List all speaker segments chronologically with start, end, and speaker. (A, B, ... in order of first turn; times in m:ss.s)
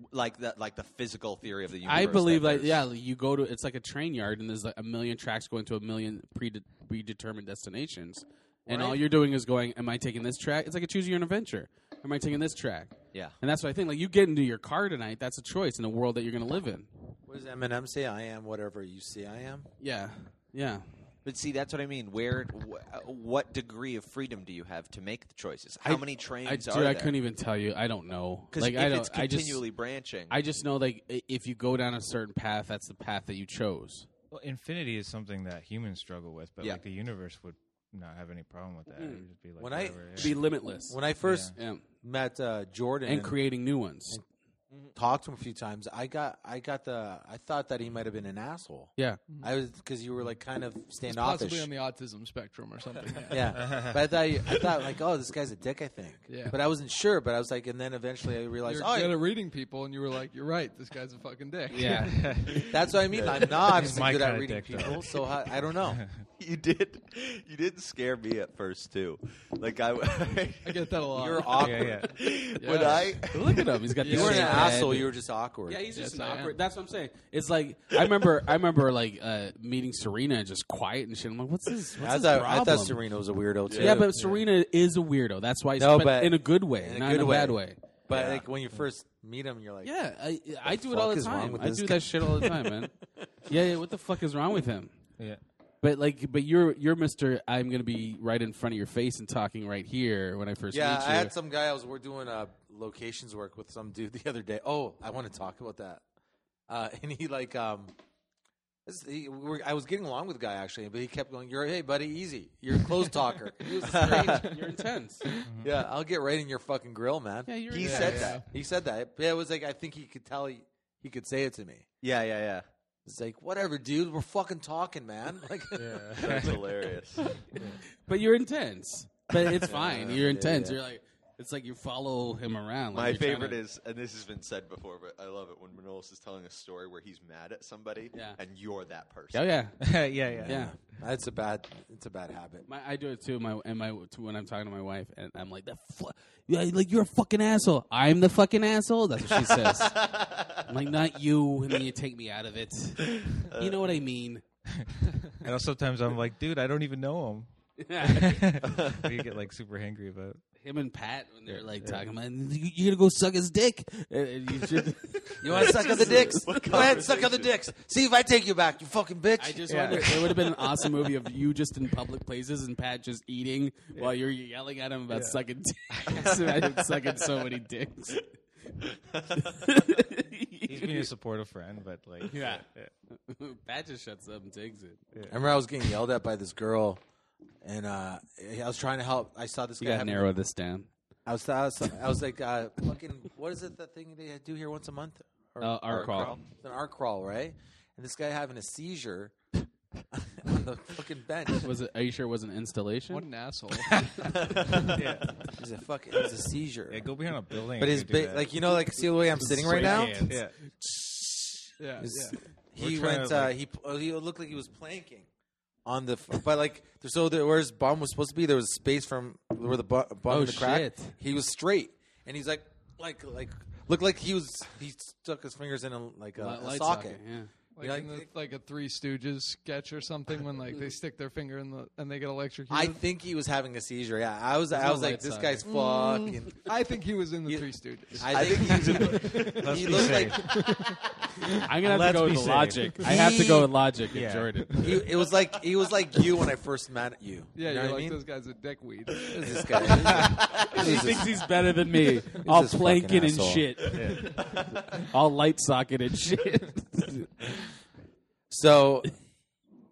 0:00.1-0:02.8 A
0:01.8-0:16.9 B
0:08.7-0:09.0 C
0:17.3-0:19.7 C
0:19.8-0:20.8 B
0:21.2-0:27.1 A
0:25.8-0:29.6 B
0:28.5-0:30.4 A
0:30.3-0:34.1 B
0:34.3-0:40.4 D
0:39.0-0:39.2 B
0:39.6-0:40.4 C
0:40.2-0:41.0 B
0:40.9-0:43.4 C
0:41.2-0:41.5 D
0:41.5-0:41.8 B
0:43.0-0:44.2 B
0:44.9-0:51.7 C
0:51.0-0:53.6 E
0:53.3-0:59.2 C
0:53.5-0:54.0 D
0:56.3-0:56.6 E
0:58.6-1:02.7 E
1:01.7-1:02.2 B
1:01.8-1:06.2 D
1:02.6-1:06.0 C
1:06.4-1:10.9 A
1:10.6-1:11.7 E
1:11.1-1:12.1 C
1:11.6-1:12.2 D
1:12.0-1:13.7 A
1:12.6-1:13.3 E
1:13.2-1:15.1 B
1:14.0-1:14.8 E
1:14.1-1:15.8 C
1:15.7-1:23.0 B
1:15.9-1:16.6 E
1:22.0-1:24.1 C
1:23.7-1:24.0 A
1:23.7-1:27.8 B
1:25.8-1:29.9 C
1:29.8-1:32.9 B
1:30.6-1:32.7 C
1:33.5-1:34.9 B
1:35.8-1:41.3 B
1:40.7-1:46.0 C
1:46.7-1:47.9 C
1:48.8-1:54.5 C
1:53.9-1:54.6 E
1:53.9-1:55.2 B
1:54.1-1:54.4 A
1:55.6-2:01.8 C
1:57.5-1:58.3 B
1:57.7-1:58.4 A
1:57.8-1:58.5 E
2:02.0-2:02.6 A
2:03.0-2:06.4 C
2:05.8-2:06.7 D
2:06.2-2:07.4 A
2:08.0-2:13.6 B
2:09.6-2:10.2 A
2:09.7-2:10.8 C
2:12.9-2:19.5 A
2:19.3-2:20.7 B
2:19.8-2:20.6 D
2:20.4-2:22.6 C
2:22.7-2:30.1 B
2:29.3-2:30.6 A
2:30.6-2:34.4 B
2:33.2-2:33.9 A
2:34.7-2:40.4 D
2:37.8-2:38.6 B
2:38.6-2:39.1 A
2:40.6-2:46.6 B
2:41.5-2:42.0 D
2:45.4-2:50.3 C
2:45.8-2:47.5 A
2:49.4-2:58.2 B
2:49.7-2:50.2 D
2:55.1-2:56.8 D
2:59.4-3:01.1 B
3:00.6-3:02.9 D
3:02.3-3:02.6 B
3:03.3-3:05.0 B
3:05.1-3:05.4 D
3:05.3-3:07.0 C
3:07.6-3:10.3 C
3:09.8-3:10.9 B
3:11.2-3:19.4 C
3:15.6-3:16.4 B
3:15.9-3:16.4 A
3:20.1-3:21.7 C
3:21.6-3:23.3 B
3:23.1-3:24.9 E
3:24.4-3:24.9 A
3:24.9-3:25.4 D
3:25.5-3:27.1 C
3:26.9-3:28.7 D
3:27.8-3:35.3 C
3:29.4-3:30.6 D
3:29.8-3:30.2 E
3:31.8-3:32.4 E
3:32.8-3:33.5 D
3:35.8-3:47.2 C
3:40.3-3:41.1 B
3:46.4-3:47.5 B
3:47.8-3:53.0 E
3:47.8-3:48.3 C
3:52.7-3:56.7 C
3:54.7-3:55.7 B
3:55.6-4:01.0 E
3:57.4-4:00.8 C
3:58.3-3:59.6 A
3:59.6-4:00.7 D
4:01.6-4:04.9 B
4:01.7-4:03.3 D
4:03.1-4:03.5 C
4:04.1-4:04.9 D
4:04.8-4:08.2 C
4:07.5-4:11.0 E
4:09.3-4:11.4 C
4:10.6-4:14.4 B
4:12.4-4:13.9 C
4:13.9-4:14.3 D
4:15.0-4:17.4 B
4:18.5-4:19.1 C